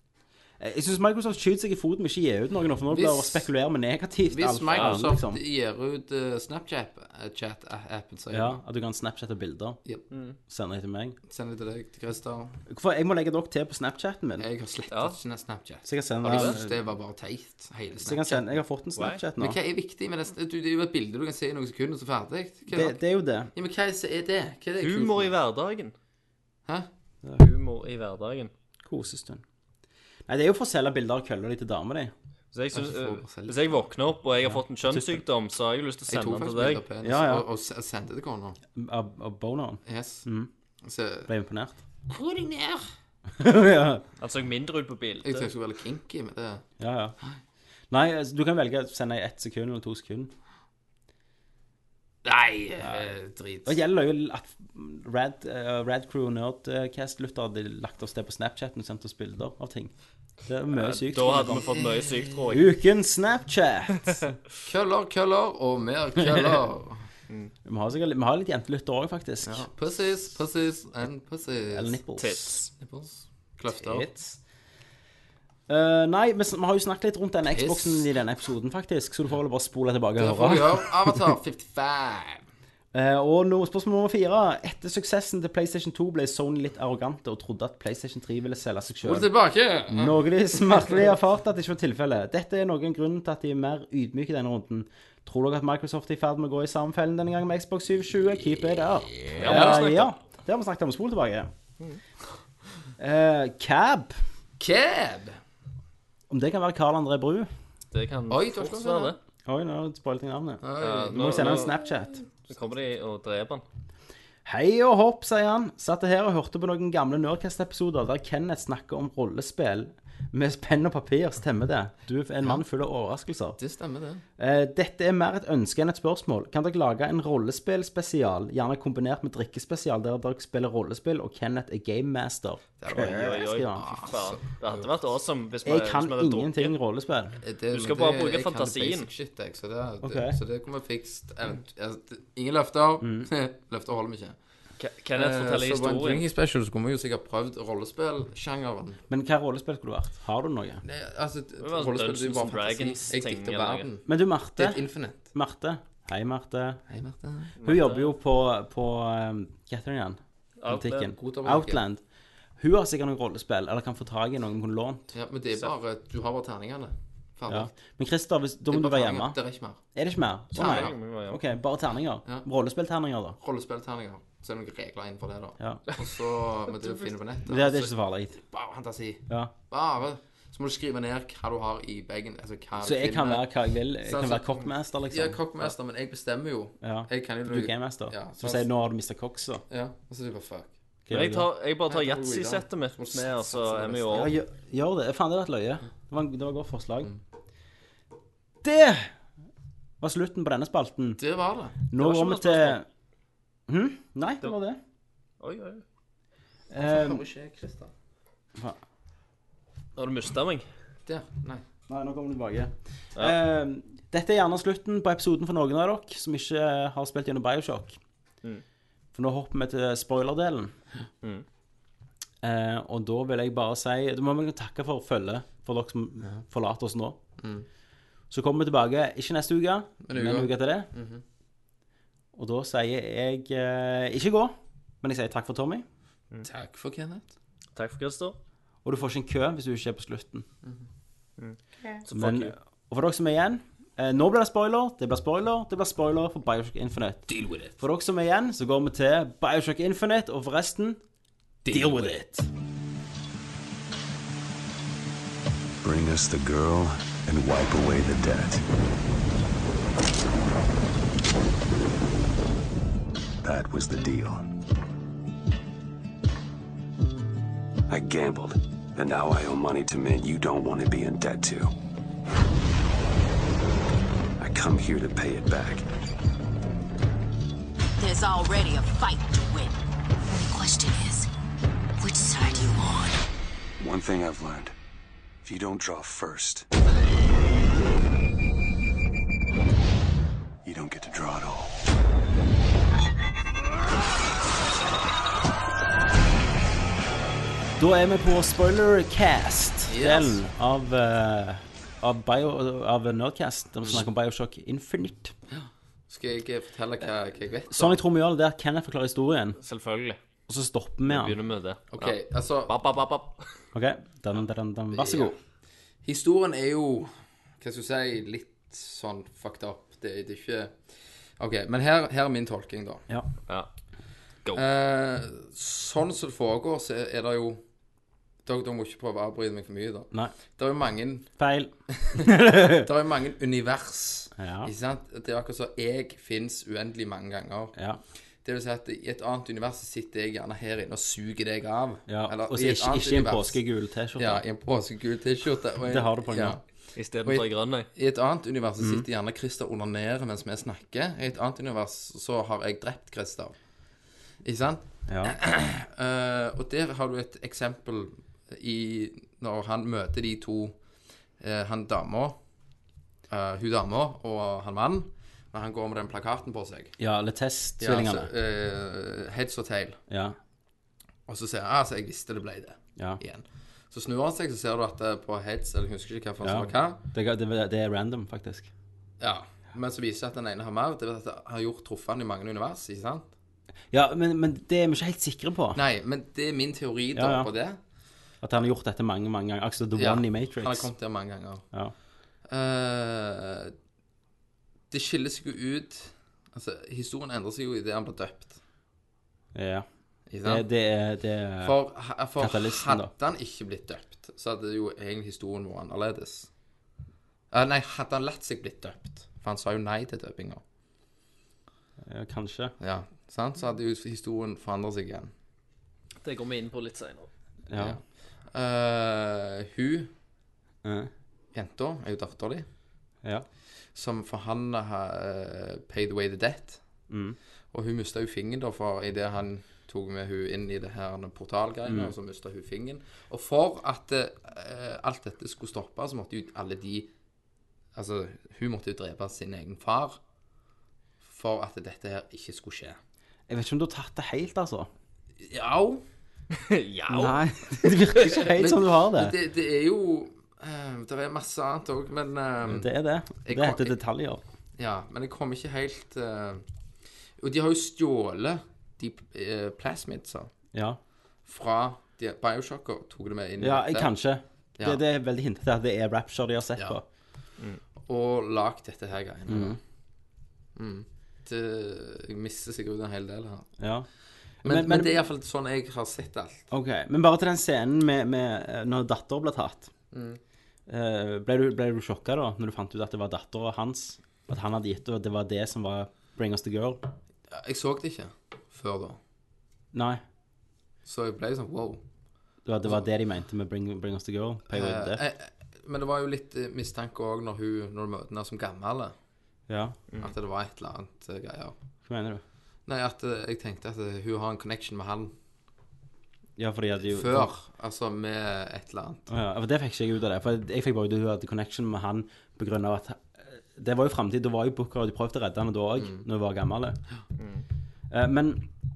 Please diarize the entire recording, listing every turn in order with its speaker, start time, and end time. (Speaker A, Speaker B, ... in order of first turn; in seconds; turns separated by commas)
Speaker A: 0.6-5.4, Speaker B: 2.9-3.5, Speaker B: 4.3-8.6, Speaker C: 4.7-5.0, Speaker A: 8.3-9.8, Speaker C: 10.1-10.4, Speaker A: 10.5-11.2, Speaker B: 11.3-12.6, Speaker A: 12.7-14.5, Speaker B: 14.4-18.4, Speaker C: 14.9-15.2, Speaker A: 15.8-16.8, Speaker C: 16.3-16.6, Speaker A: 18.0-19.6, Speaker C: 19.0-19.2, Speaker B: 19.4-23.0, Speaker A: 22.7-23.5, Speaker B: 23.5-25.4, Speaker C: 24.8-25.9, Speaker C: 27.4-28.5, Speaker A: 28.8-29.4, Speaker A: 30.3-32.1, Speaker C: 32.5-36.8, Speaker B: 32.7-33.9, Speaker A: 34.5-35.2, Speaker B: 36.1-38.6, Speaker A: 37.0-37.5, Speaker A: 38.8-40.5, Speaker B: 39.9-40.3, Speaker B: 40.8-41.3, Speaker A: 41.3-41.8, Speaker B: 42.1-42.9, Speaker A: 43.4-44.1, Speaker C: 44.2-45.5, Speaker B: 45.2-46.6, Speaker A: 46.8-47.1, Speaker A: 47.9-50.3, Speaker B: 52.2-53.8, Speaker A: 53.6-59.9, Speaker A: 60.5-61.7, Speaker C: 60.7-62.7, Speaker B: 61.7-62.4, Speaker A: 62.5-64.3, Speaker B: 64.6-67.0, Speaker A: 66.2-66.5, Speaker A: 67.7-69.7, Speaker B: 69.5-72.0, Speaker A: 71.7-72.6, Speaker C: 72.2-72.7, Speaker B: 72.8-74.1, Speaker A: 73.7-74.4, Speaker A: 75.7-81.2, Speaker B: 77.5-78.1, Speaker B: 80.2-82.4, Speaker A: 82.9-89.3, Speaker B: 89.0-90.2, Speaker A: 89.9-101.5, Speaker B: 99.3-99.9, Speaker C: 99.4-100.1, Speaker A: 103.0-104.2, Speaker B: 104.6-105.4, Speaker A: 106.3-107.5, Speaker C: 107.9-109.2, Speaker B: 108.3-109.2, Speaker A: 109.5-112.2, Speaker B: 110.6-111.7, Speaker C: 110.8-111.8, Speaker C: 112.5-113.6, Speaker A: 114.5-123.6, Speaker B: 123.6-124.2, Speaker A: 124.4-133.8, Speaker B: 132.8-134.9, Speaker C: 132.9-136.7, Speaker A: 135.7-137.4, Speaker B: 137.4-144.4, Speaker C: 137.7-139.1, Speaker A: 140.0-140.4, Speaker A: 143.0-143.3, Speaker C: 144.8-146.3, Speaker B: 145.2-149.0, Speaker A: 149.1-150.8, Speaker B: 150.8-155.2, Speaker C: 151.6-153.9, Speaker A: 154.1-156.8, Speaker B: 156.9-157.6, Speaker C: 157.6-158.1, Speaker A: 157.6-162.0, Speaker C: 160.6-161.1, Speaker B: 161.1-161.8, Speaker A: 162.6-165.1, Speaker B: 165.1-167.7, Speaker A: 167.5-169.4, Speaker B: 168.7-169.8, Speaker A: 169.9-173.4, Speaker B: 170.5-170.9, Speaker C: 170.5-171.4, Speaker B: 173.4-183.5, Speaker A: 177.5-178.4, Speaker A: 182.8-185.7, Speaker B: 184.0-188.7, Speaker A: 186.8-189.6, Speaker B: 189.7-190.7, Speaker A: 191.1-191.5, Speaker C: 191.1-194.3, Speaker B: 191.9-194.3, Speaker A: 194.1-197.1, Speaker A: 198.6-199.1, Speaker A: 200.0-201.2, Speaker B: 201.2-201.8, Speaker A: 201.9-202.9, Speaker C: 202.0-202.8, Speaker A: 203.7-204.8, Speaker C: 205.4-205.8, Speaker A: 206.7-207.2, Speaker B: 206.8-207.9, Speaker C: 210.0-210.7, Speaker B: 211.1-211.6, Speaker A: 211.9-218.0, Speaker A: 219.1-220.7, Speaker A: 222.4-227.2, Speaker B: 227.4-227.7, Speaker A: 228.3-230.9, Speaker B: 230.0-231.2, Speaker A: 232.3-235.8, Speaker B: 236.4-237.3, Speaker C: 237.8-238.4, Speaker A: 238.8-240.5, Speaker C: 241.4-242.5, Speaker A: 242.1-251.0, Speaker B: 247.3-247.8, Speaker B: 251.7-252.2, Speaker A: 251.7-252.5, Speaker D: 255.8-258.6, Speaker D: 263.4-264.5, Speaker D: 267.9-271.7, Speaker D: 274.4-275.9, Speaker E: 278.0-281.3, Speaker E: 282.0-283.2, Speaker D: 283.8-284.8, Speaker D: 285.4-286.7, Speaker D: 290.6-291.8, Speaker A: 297.8-305.4, Speaker B: 299.9-300.4, Speaker B: 305.5-308.0, Speaker A: 307.7-309.6, Speaker C: 309.6-310.2, Speaker A: 310.5-311.4, Speaker C: 311.1-313.5, Speaker B: 311.9-312.7, Speaker A: 313.7-315.4, Speaker B: 314.9-315.3, Speaker B: 316.0-320.8, Speaker B: 321.4-323.1, Speaker B: 324.6-327.6, Speaker B: 328.4-331.3, Speaker A: 331.4-332.9, Speaker B: 332.0-337.7, Speaker A: 334.4-334.7, Speaker A: 337.8-338.0, Speaker B: 338.4-343.6, Speaker A: 342.1-344.4, Speaker B: 344.2-346.6, Speaker A: 345.9-346.6, Speaker C: 346.9-347.9, Speaker B: 347.2-353.5, Speaker A: 348.8-349.1, Speaker B: 354.4-360.8, Speaker A: 355.1-355.4, Speaker B: 361.4-362.4, Speaker B: 363.3-367.0, Speaker A: 367.0-368.3, Speaker B: 367.8-370.0, Speaker A: 370.1-370.4, Speaker B: 371.3-377.0, Speaker A: 376.4-378.7, Speaker B: 379.2-383.3, Speaker A: 383.9-385.8, Speaker B: 385.8-387.8, Speaker A: 387.1-387.5, Speaker A: 388.4-390.9, Speaker B: 390.0-391.6, Speaker B: 392.5-393.7, Speaker B: 394.9-398.6, Speaker A: 399.5-399.9, Speaker B: 400.3-400.6, Speaker A: 400.4-401.8, Speaker B: 401.6-406.5, Speaker A: 402.4-403.1, Speaker B: 407.5-410.6, Speaker A: 412.1-412.7, Speaker B: 412.8-415.3, Speaker C: 416.2-417.3, Speaker A: 417.7-418.0, Speaker B: 417.8-420.1, Speaker A: 420.8-421.1, Speaker B: 421.5-422.7, Speaker B: 423.9-426.8, Speaker A: 427.1-427.4, Speaker B: 427.7-437.1, Speaker A: 431.9-432.1, Speaker B: 437.9-440.2, Speaker B: 441.2-443.0, Speaker A: 443.5-444.9, Speaker B: 445.4-446.0, Speaker C: 446.5-448.4, Speaker A: 447.1-449.4, Speaker B: 448.6-452.9, Speaker A: 452.6-454.4, Speaker B: 453.4-453.9, Speaker B: 454.8-456.6, Speaker B: 457.4-460.5, Speaker A: 460.7-461.0, Speaker B: 461.5-464.1, Speaker A: 463.6-467.0, Speaker B: 468.0-469.8, Speaker A: 469.5-469.8, Speaker B: 470.8-473.7, Speaker A: 473.8-474.1, Speaker B: 474.6-476.7, Speaker A: 474.6-475.2, Speaker A: 476.7-479.9, Speaker B: 480.1-480.4, Speaker A: 480.9-487.0, Speaker B: 487.5-489.2, Speaker A: 489.9-490.2, Speaker B: 491.1-492.0, Speaker A: 492.6-495.2, Speaker B: 494.7-499.1, Speaker A: 499.7-500.0, Speaker B: 500.2-501.8, Speaker A: 502.1-502.4, Speaker B: 502.9-505.3, Speaker A: 506.6-507.5, Speaker B: 507.1-509.3, Speaker A: 509.3-517.0, Speaker B: 516.0-516.2, Speaker C: 517.4-517.6, Speaker A: 518.1-518.7